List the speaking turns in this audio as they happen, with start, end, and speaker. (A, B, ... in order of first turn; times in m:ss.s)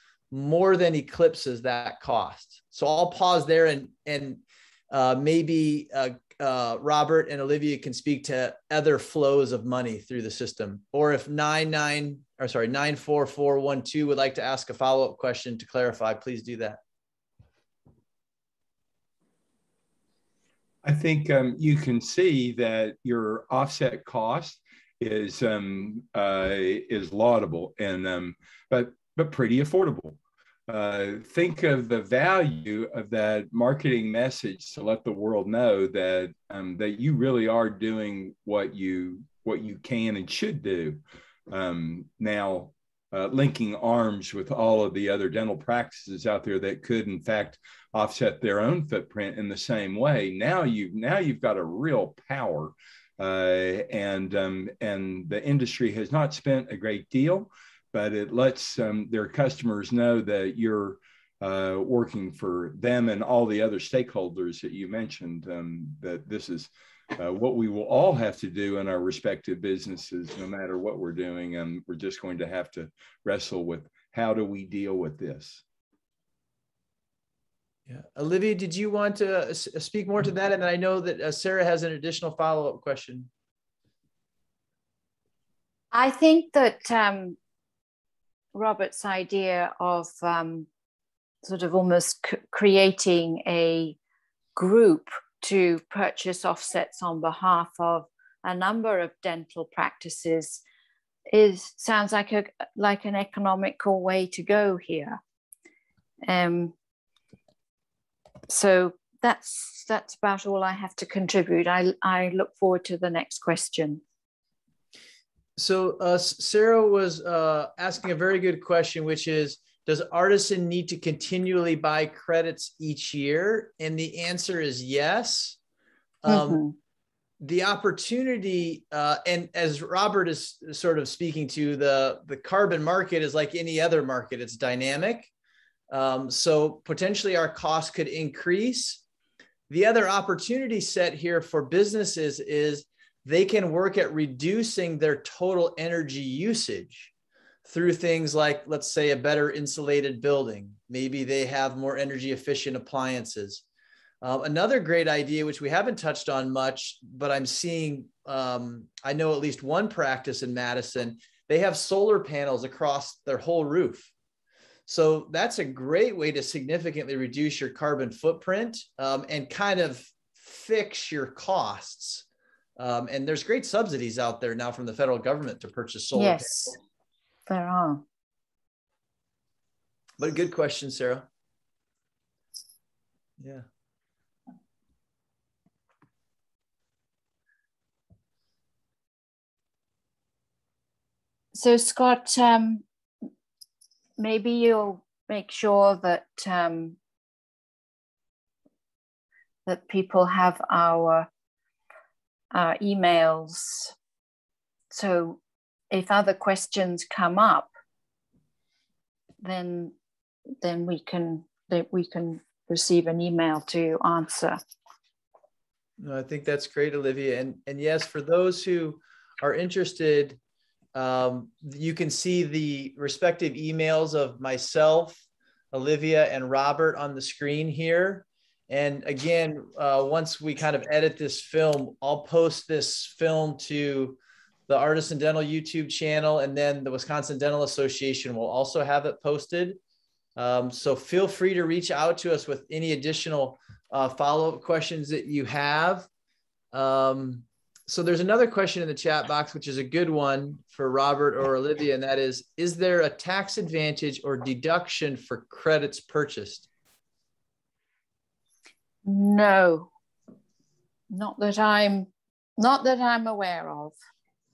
0:00.3-0:16.8 A
0:20.8-0:30.2 B
0:30.7-1:15.6 B
1:17.9-1:23.3 A
1:25.9-1:27.4 C
1:28.5-1:30.7 C
1:31.4-1:34.0 C
1:34.6-1:40.6 C
1:41.3-1:45.2 C
1:46.2-1:46.7 C
1:48.5-1:54.0 C
1:55.6-2:05.6 A
2:06.2-2:06.6 A
2:06.3-2:06.8 C
2:07.4-2:15.3 A
2:15.9-2:19.0 A
2:19.7-2:27.1 A
2:27.7-2:33.6 A
2:34.2-2:44.1 A
2:44.9-2:52.2 A
2:52.8-2:56.8 A
2:56.2-2:56.8 C
2:57.5-2:58.0 C
3:00.2-3:01.3 A
3:03.4-3:03.7 A
3:11.5-3:12.8 C
3:14.2-3:17.0 C
3:19.7-3:21.3 C
3:22.5-3:23.9 C
3:24.9-3:25.4 C
3:25.9-3:27.7 C
3:29.4-3:29.9 C
3:30.6-3:34.6 C
3:36.0-3:40.4 A
3:41.0-3:59.8 A
4:00.4-4:06.1 A
4:06.7-4:16.7 A
4:19.0-4:19.9 C
4:21.1-4:24.0 C